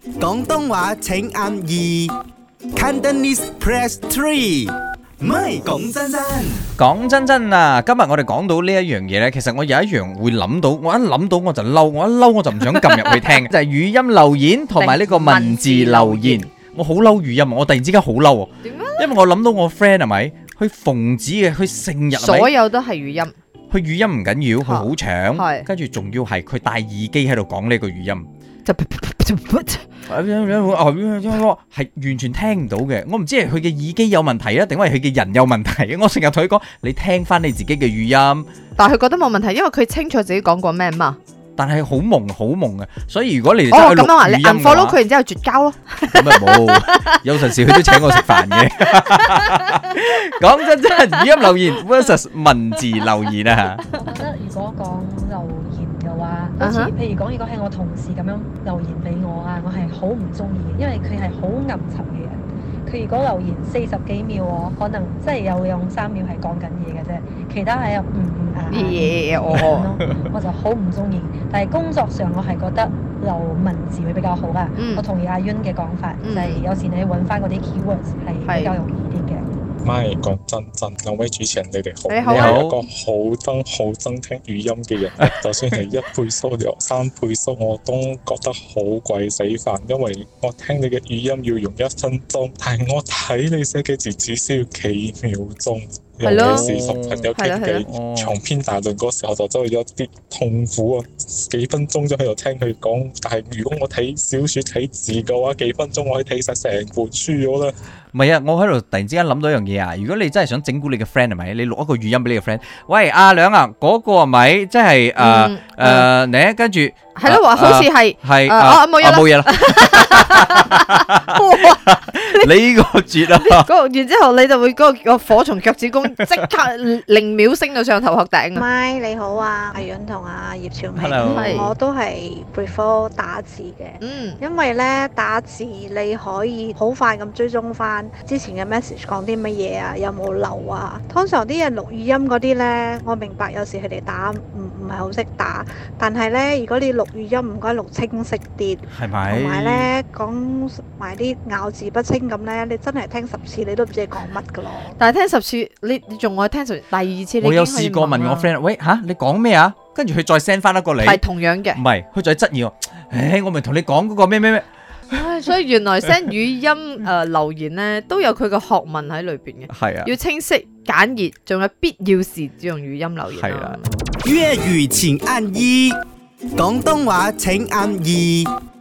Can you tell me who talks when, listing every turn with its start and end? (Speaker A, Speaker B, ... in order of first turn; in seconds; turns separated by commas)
Speaker A: 0.2-2.1, Speaker A: 2.8-6.7, Speaker B: 6.8-22.5, Speaker C: 14.8-16.5, Speaker C: 18.6-19.1, Speaker C: 22.1-23.3, Speaker B: 23.7-28.3, Speaker C: 24.6-25.7, Speaker C: 28.6-30.0, Speaker B: 30.1-38.5, Speaker C: 38.8-41.2, Speaker B: 41.6-45.0, Speaker C: 43.7-49.8, Speaker B: 46.1-53.8, Speaker D: 53.9-79.5, Speaker C: 56.6-56.9, Speaker C: 68.7-69.9, Speaker B: 69.5-70.3, Speaker C: 74.8-75.0, Speaker C: 76.2-76.6, Speaker C: 78.4-78.8, Speaker E: 79.8-107.7, Speaker C: 82.1-82.6, Speaker B: 82.3-82.8, Speaker C: 96.2-96.7, Speaker B: 96.3-98.3, Speaker C: 97.3-97.8, Speaker B: 108.1-123.7, Speaker C: 115.2-116.1, Speaker C: 117.1-121.8, Speaker C: 123.3-128.7, Speaker F: 128.5-154.9, Speaker B: 130.9-131.7, Speaker C: 131.2-131.7, Speaker C: 134.0-134.4, Speaker B: 148.9-149.9, Speaker C: 154.9-158.5, Speaker B: 157.4-161.2, Speaker C: 161.0-161.8, Speaker B: 161.7-164.7, Speaker C: 165.1-173.8, Speaker B: 169.7-170.1, Speaker B: 173.3-173.8, Speaker A: 174.2-176.0, Speaker A: 176.6-178.5